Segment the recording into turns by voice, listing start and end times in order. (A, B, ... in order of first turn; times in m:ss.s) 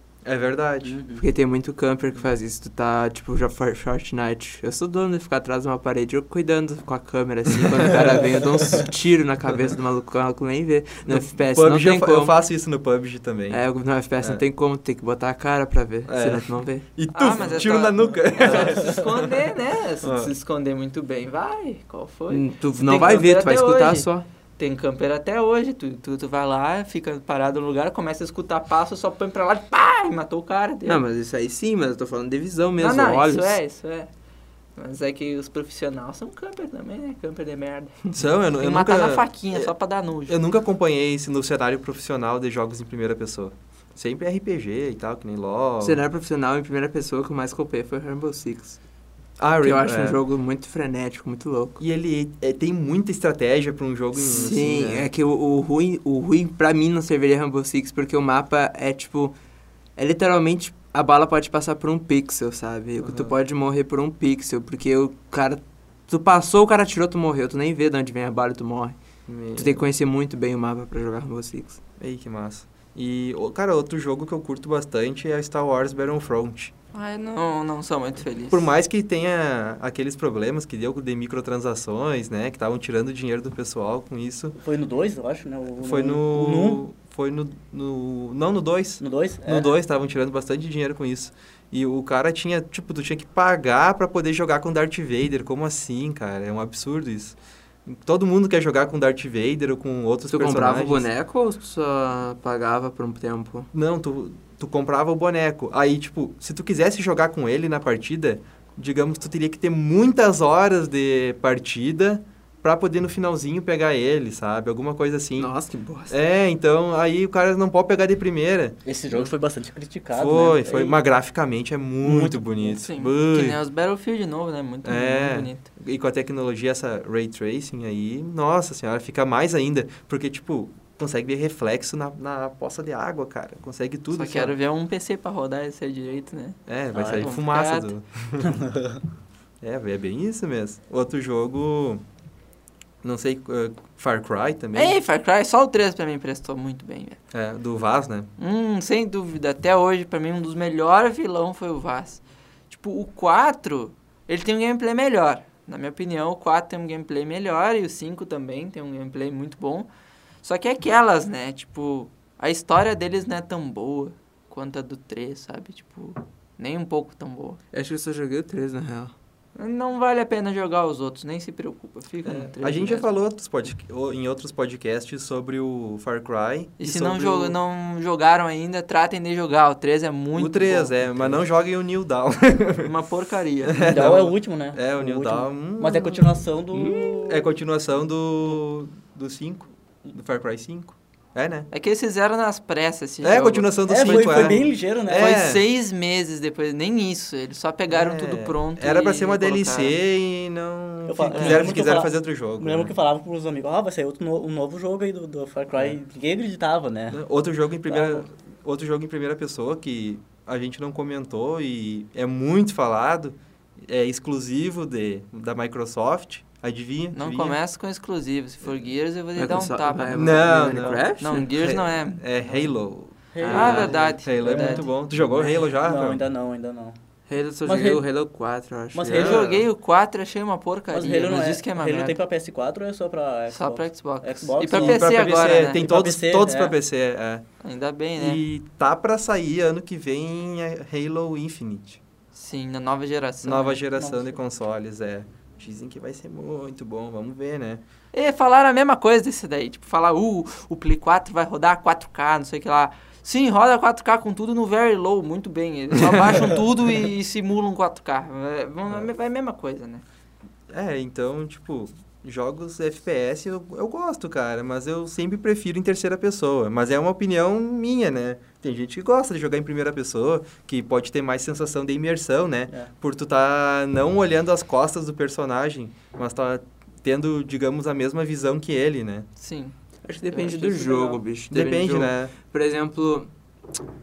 0:00.2-0:01.0 A
0:00.8-0:01.2 B
0:01.2-0:12.4 C
0:11.0-0:13.6 A
0:13.5-0:16.8 C
0:16.1-0:19.3 A
0:17.1-0:31.0 D
0:20.0-0:20.3 A
0:22.3-0:24.2 C
0:30.8-0:33.6 C
0:32.8-0:34.1 D
0:34.8-0:38.0 D
0:38.1-0:39.7 A
0:38.6-0:40.4 D
0:40.3-0:46.0 A
0:45.8-0:48.8 C
0:49.4-0:50.2 A
0:49.6-0:51.8 C
0:51.8-0:55.1 A
0:54.1-0:59.3 C
1:00.0-1:08.9 C
1:03.0-1:03.3 A
1:09.3-1:09.9 A
1:09.5-1:11.8 C
1:12.0-1:16.7 A
1:16.9-1:18.7 D
1:18.5-1:24.6 A
1:24.6-1:26.8 B
1:25.8-1:41.1 A
1:29.0-1:29.7 B
1:40.3-1:43.7 C
1:43.7-1:55.5 A
1:55.4-1:56.2 C
1:56.1-1:59.3 A
1:58.8-2:01.0 B
2:00.1-2:03.6 A
2:02.0-2:02.8 B
2:02.7-2:05.6 D
2:04.8-2:14.5 A
2:14.1-2:17.9 D
2:16.7-2:18.6 A
2:17.0-2:17.2 B
2:18.4-2:19.0 B
2:19.6-2:22.0 A
2:23.0-2:25.0 A
2:24.7-2:27.2 D
2:27.3-2:28.3 A
2:28.4-2:39.9 D
2:40.4-2:47.6 D
2:47.7-2:49.1 C
2:49.6-2:53.1 D
2:52.2-2:57.6 A
2:56.8-3:01.4 D
3:00.4-3:02.9 A
3:02.8-3:04.2 D
3:03.6-3:06.3 A
3:03.8-3:07.5 B
3:06.7-3:07.2 C
3:07.2-3:11.7 A
3:11.7-3:20.0 D
3:13.2-3:15.6 A
3:13.9-3:15.3 B
3:17.9-3:22.9 A
3:21.1-3:27.2 B
3:21.3-3:21.7 D
3:25.7-3:26.0 A
3:27.1-3:37.6 A
3:27.9-3:28.2 B
3:37.1-3:40.4 D
3:39.4-3:41.5 C
3:40.1-3:46.2 A
3:41.2-3:42.2 D
3:43.3-3:47.0 B
3:43.4-3:44.1 C
3:43.5-3:44.9 D
3:47.3-3:49.3 C
3:47.6-3:48.0 B
3:48.9-3:49.5 B
3:49.1-3:49.7 A
3:49.1-3:52.2 D
3:50.9-3:55.1 B
3:53.5-3:55.8 D
3:54.7-3:57.4 A
3:55.7-3:56.8 B
3:57.6-3:58.4 D
3:58.2-4:02.0 A
4:02.3-4:03.8 D
4:03.4-4:07.8 A
4:04.0-4:04.4 B
4:08.1-4:20.0 D
4:20.7-4:39.3 A
4:39.4-4:39.7 D
4:40.0-4:43.3 C
4:40.3-4:41.2 D
4:41.5-4:42.3 A